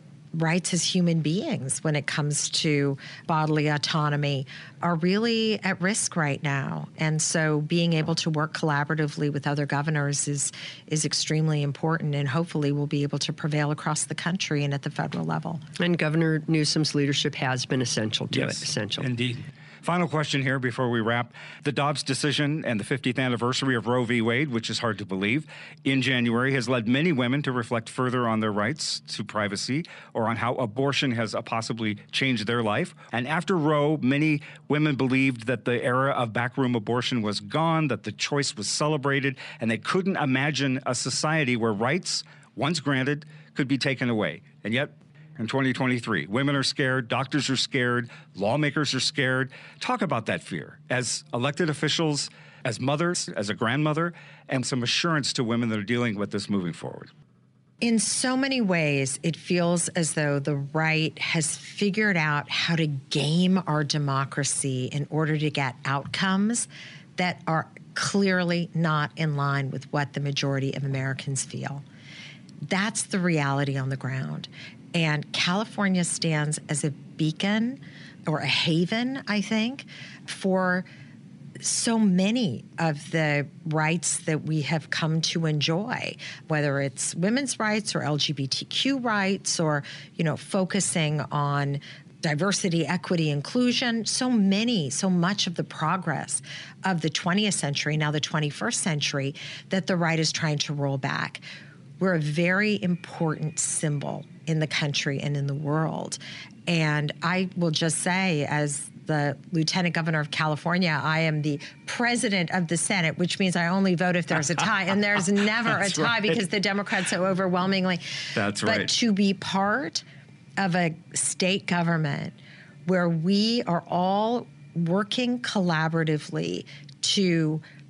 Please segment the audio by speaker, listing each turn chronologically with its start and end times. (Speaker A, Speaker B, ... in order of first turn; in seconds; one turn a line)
Speaker A: 0.3-15.6
Speaker B: 15.8-19.1
Speaker C: 18.3-57.1
Speaker A: 57.8-71.8
Speaker A: 72.7-80.9
Speaker A: 81.6-101.4
Speaker A: 102.0-118.0
Speaker C: 118.3-118.9
Speaker A: 118.6-120.0
Speaker A: 120.6-122.3
Speaker A: 122.9-127.6